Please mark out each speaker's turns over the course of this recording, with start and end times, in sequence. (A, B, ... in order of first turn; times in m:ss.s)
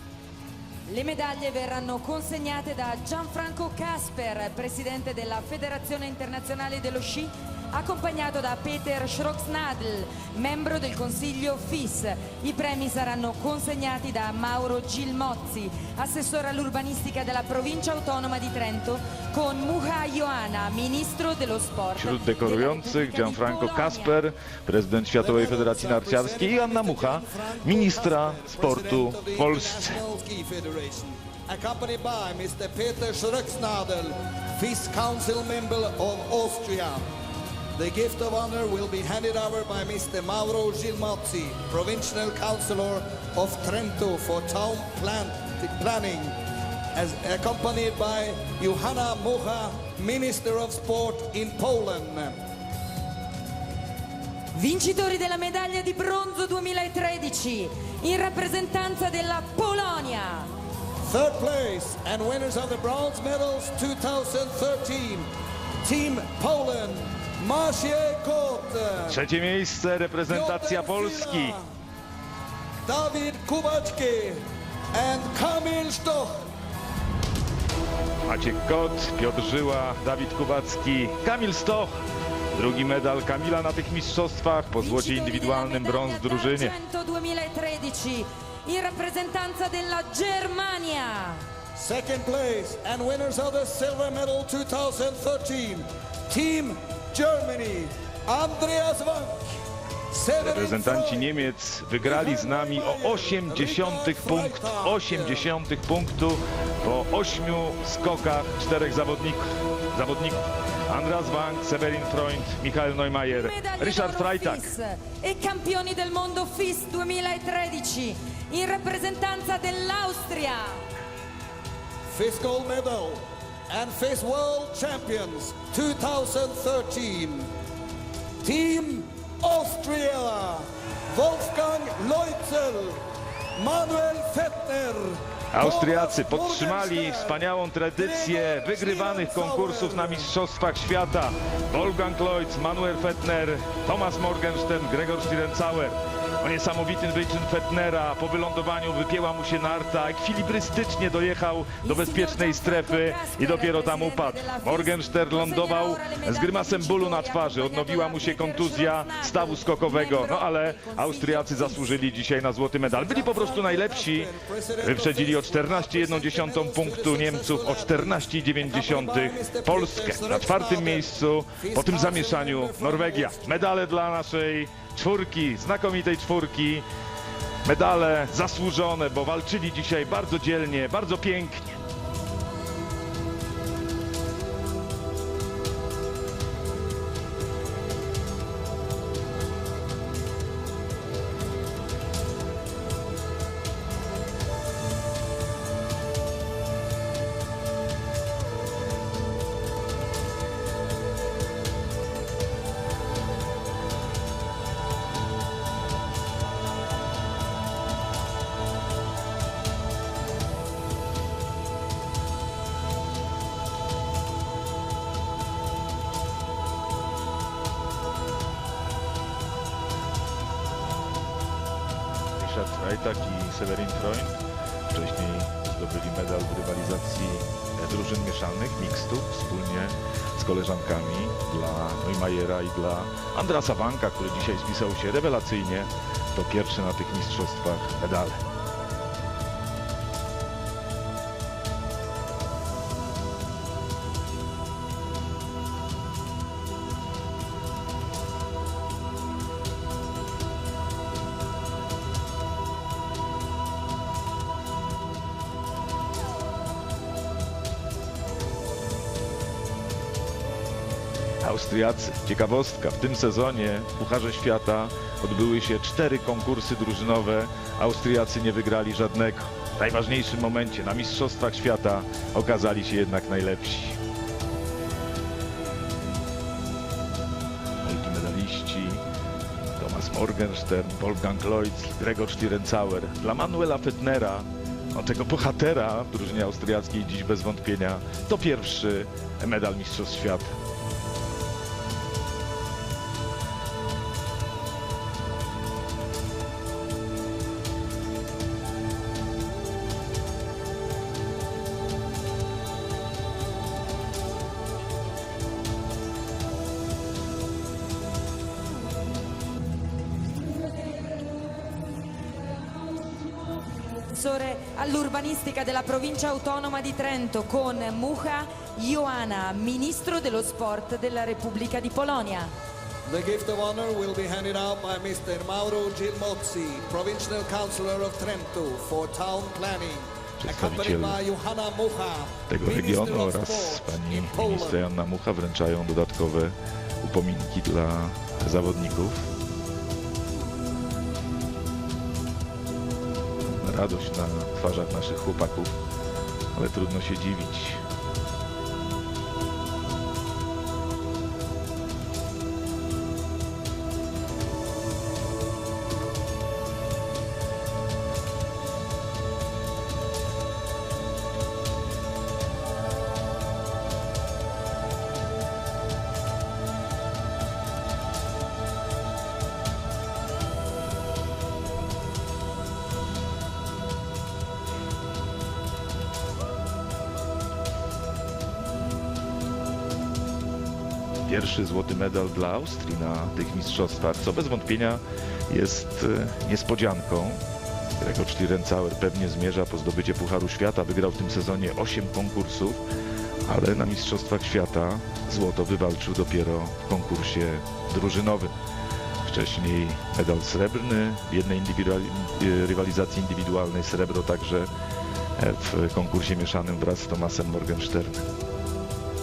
0:00.9-0:24.2 A
0:22.0-0:30.0 B
0:25.2-0:37.1 C
0:37.8-0:46.4 C
0:46.9-0:52.4 C
0:54.5-1:00.5 A
1:01.0-1:05.3 C
1:05.8-1:09.2 C
1:09.1-1:11.6 B
1:10.3-1:11.7 C
1:12.8-1:16.5 C
1:18.3-1:22.0 B
1:22.5-1:26.8 B
1:24.8-1:31.5 A
1:31.8-1:39.5 C
1:40.1-1:41.4 C
1:40.4-1:54.7 B
1:42.0-1:45.5 C
1:53.3-2:00.8 A
2:02.1-2:07.5 C
2:08.4-2:13.0 C
2:13.6-2:17.4 C
2:15.5-2:56.9 B
2:18.0-2:20.3 C
2:31.8-2:42.0 A
2:42.9-2:53.7 C
2:57.6-3:01.8 B
3:42.4-3:58.4 B
4:21.4-4:34.0 B
4:37.8-4:39.0 B
4:39.8-4:50.6 B
5:10.6-5:22.5 A
5:23.0-5:34.9 C
5:30.4-5:31.2 B
5:32.5-5:39.3 B
5:43.5-5:45.8 B
5:46.5-5:47.8 B
6:21.3-6:27.4 B
6:28.0-6:32.8 B
6:33.4-6:38.6 B
6:39.2-6:44.7 B
6:45.4-6:48.3 B